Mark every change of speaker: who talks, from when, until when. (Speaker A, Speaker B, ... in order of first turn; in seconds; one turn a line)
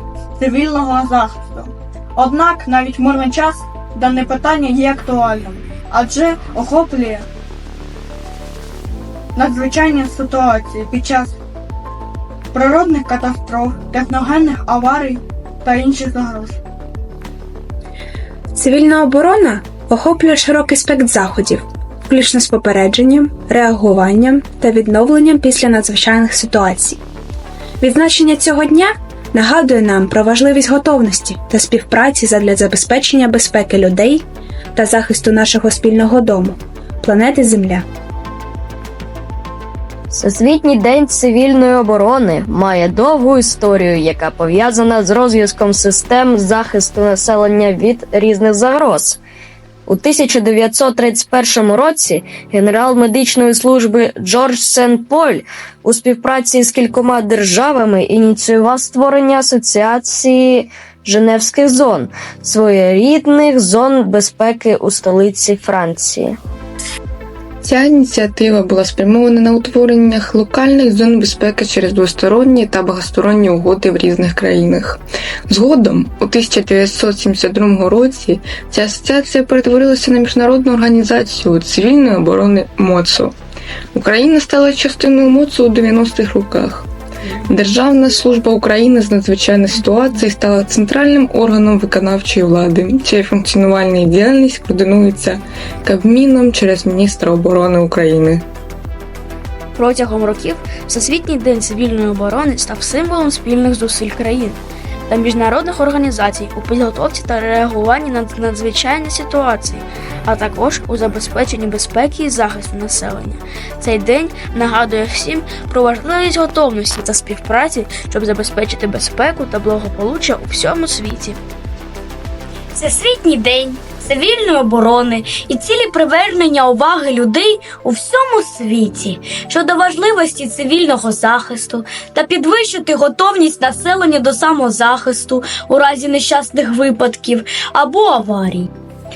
Speaker A: 0.4-7.2
Speaker A: 9.3-11.3
Speaker A: 12.5-16.6
Speaker B: 18.5-27.0
Speaker B: 27.8-34.2
Speaker B: 34.7-37.8
Speaker C: 40.2-41.2
Speaker C: 42.7-47.0
Speaker C: 47.7-49.2
Speaker C: 49.9-50.1
Speaker C: 51.1-51.3
Speaker C: 52.2-57.0
Speaker C: 58.6-59.0
Speaker C: 59.6-60.2
Speaker C: 61.0-61.6
Speaker C: 62.4-62.7
Speaker C: 64.1-65.7
Speaker D: 67.6-83.3
Speaker D: 83.9-86.9
Speaker D: 87.5-98.4
Speaker E: 99.8-121.4
Speaker F: 122.7-138.7